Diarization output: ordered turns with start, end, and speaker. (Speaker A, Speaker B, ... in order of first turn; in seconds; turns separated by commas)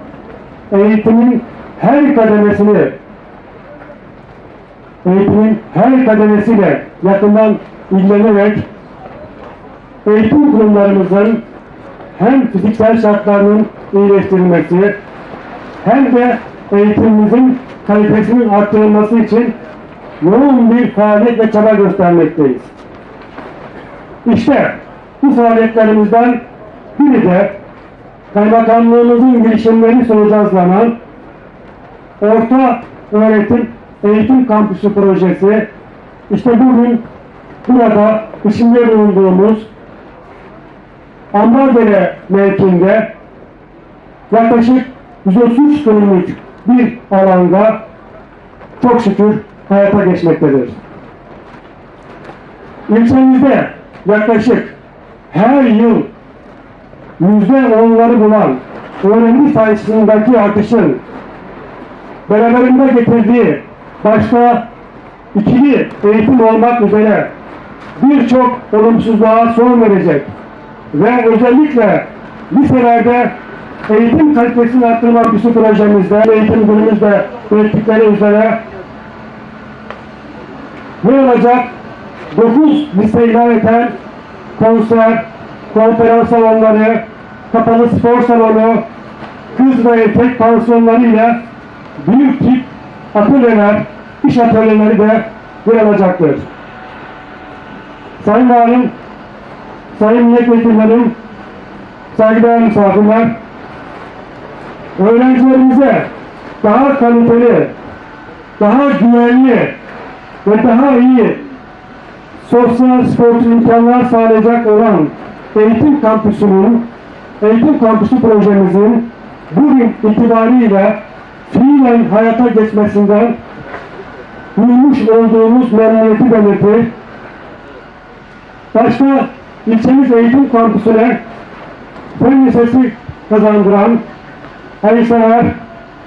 Speaker A: 0.7-3.0, Speaker A: 5.0-8.7, Speaker A: 10.0-11.4, Speaker A: 12.2-15.0, Speaker A: 15.8-19.5, Speaker A: 20.2-22.7, Speaker A: 24.2-26.4, Speaker A: 26.9-27.6, Speaker A: 28.3-30.9, Speaker A: 32.2-35.7, Speaker A: 36.3-37.0, Speaker A: 37.6-39.7, Speaker A: 41.3-43.1, Speaker A: 44.3-47.8, Speaker A: 48.8-50.8, Speaker A: 52.9-54.7, Speaker A: 55.3-56.1, Speaker A: 57.2-61.0, Speaker A: 62.3-64.7, Speaker A: 65.3-67.3, Speaker A: 68.0-70.3, Speaker A: 70.9-73.3, Speaker A: 73.9-78.6, Speaker A: 81.0-81.7, Speaker A: 82.3-84.0, Speaker A: 84.5-88.8, Speaker A: 89.5-91.4, Speaker A: 92.0-96.5, Speaker A: 98.2-98.9, Speaker A: 99.9-101.1, Speaker A: 102.1-103.3, Speaker A: 105.0-106.1, Speaker A: 106.6-107.7, Speaker A: 108.6-109.8, Speaker A: 110.4-111.4, Speaker A: 112.4-116.8, Speaker A: 117.4-123.4, Speaker A: 124.6-126.9, Speaker A: 128.7-131.2, Speaker A: 132.1-134.0, Speaker A: 134.8-135.6